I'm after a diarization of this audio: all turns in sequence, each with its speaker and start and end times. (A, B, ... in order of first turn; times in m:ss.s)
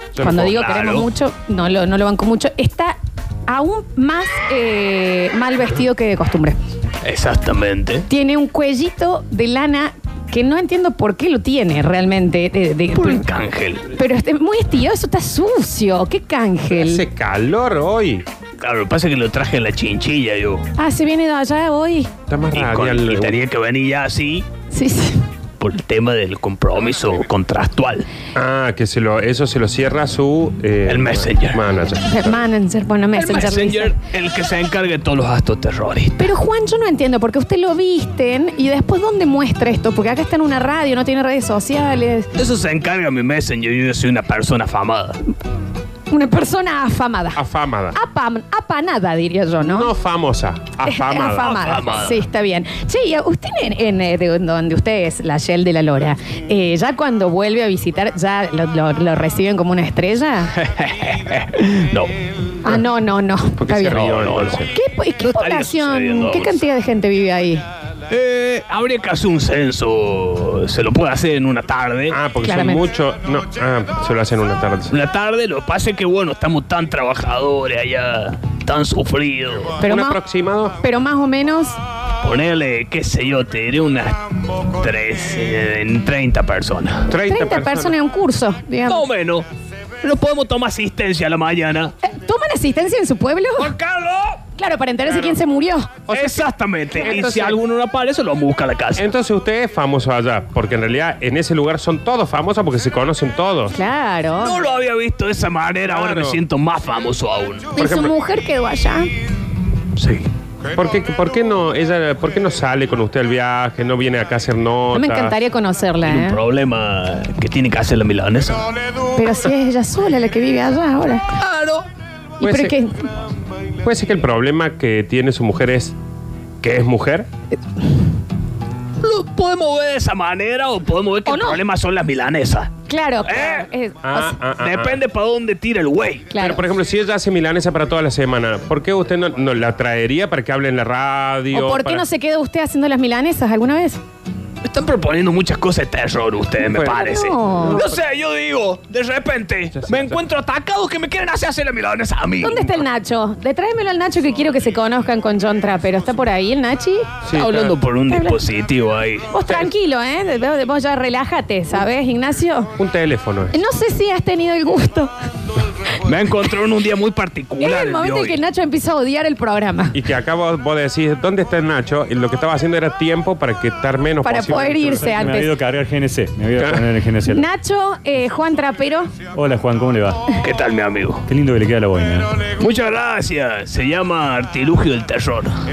0:00.1-0:00.4 A
0:00.2-0:03.0 B
0:00.2-0:01.0 C
0:03.5-0:06.6 B
0:07.0-0:08.0 C
0:08.1-0:13.2 B
0:12.9-0:13.9 C
0:13.9-0:17.0 B
0:16.7-0:18.2 A
0:18.6-0:20.6 C
0:20.8-0:22.1 B
0:22.3-0:23.4 A
0:22.5-0:24.4 C
0:24.7-0:25.2 B
0:25.6-0:28.1 C
0:28.3-0:32.4 A
0:30.8-0:31.6 C
0:32.0-0:34.0 B
0:33.1-0:36.3 C
0:36.2-0:42.3 B
0:42.3-0:45.2 C
0:46.1-0:47.4 B
0:47.3-0:48.0 A
0:47.9-0:49.9 B
0:49.6-0:51.8 A
0:50.8-1:00.5 B
0:51.4-0:52.2 C
1:00.5-1:02.1 C
1:02.6-1:04.1 B
1:03.6-1:04.8 A
1:03.9-1:04.7 C
1:04.7-1:07.6 B
1:05.2-1:06.6 C
1:08.1-1:12.2 C
1:12.1-1:15.0 A
1:12.4-1:12.8 B
1:14.9-1:19.8 C
1:19.8-1:20.8 A
1:19.8-1:20.2 B
1:20.8-1:21.8 B
1:22.2-1:27.1 C
1:27.1-1:28.0 A
1:27.2-1:29.0 B
1:28.9-1:29.5 C
1:30.0-1:31.9 C
1:32.0-1:33.7 B
1:33.6-1:34.4 C
1:34.6-1:35.9 B
1:36.1-1:37.6 A
1:36.1-1:39.1 C
1:39.0-1:43.8 A
1:43.7-1:44.6 B
1:44.4-1:47.7 C
1:45.8-1:46.4 A
1:47.8-1:49.1 B
1:47.8-1:48.1 A
1:50.0-1:50.3 C
1:50.7-1:55.4 A
1:54.9-1:56.4 B
1:56.0-1:58.7 C
1:59.2-2:01.3 B
2:01.4-2:01.9 C
2:02.4-2:03.1 B
2:02.4-2:02.8 A
2:03.8-2:05.9 A
2:06.6-2:07.3 A
2:09.0-2:12.7 C
2:11.2-2:11.6 B
2:12.9-2:14.4 B
2:13.2-2:13.7 C
2:14.0-2:15.0 A
2:14.6-2:16.3 C
2:16.3-2:16.7 B
2:16.3-2:22.0 A
2:21.5-2:24.0 B
2:24.6-2:32.8 C
2:26.9-2:27.8 B
2:29.7-2:30.2 A
2:32.4-2:37.1 B
2:37.2-2:37.8 A
2:37.3-2:39.4 C
2:38.1-2:38.4 B
2:39.3-2:42.8 B
2:42.8-2:43.6 A
2:43.5-2:45.1 B
2:45.9-2:48.4 C
2:47.6-2:50.0 B
2:49.9-2:55.1 A
2:54.2-2:55.5 B
2:55.0-2:57.5 D
2:56.6-2:56.9 A
2:57.2-2:59.1 B
2:59.3-3:00.2 D
3:00.4-3:01.2 C
3:01.3-3:02.3 D
3:02.5-3:05.6 C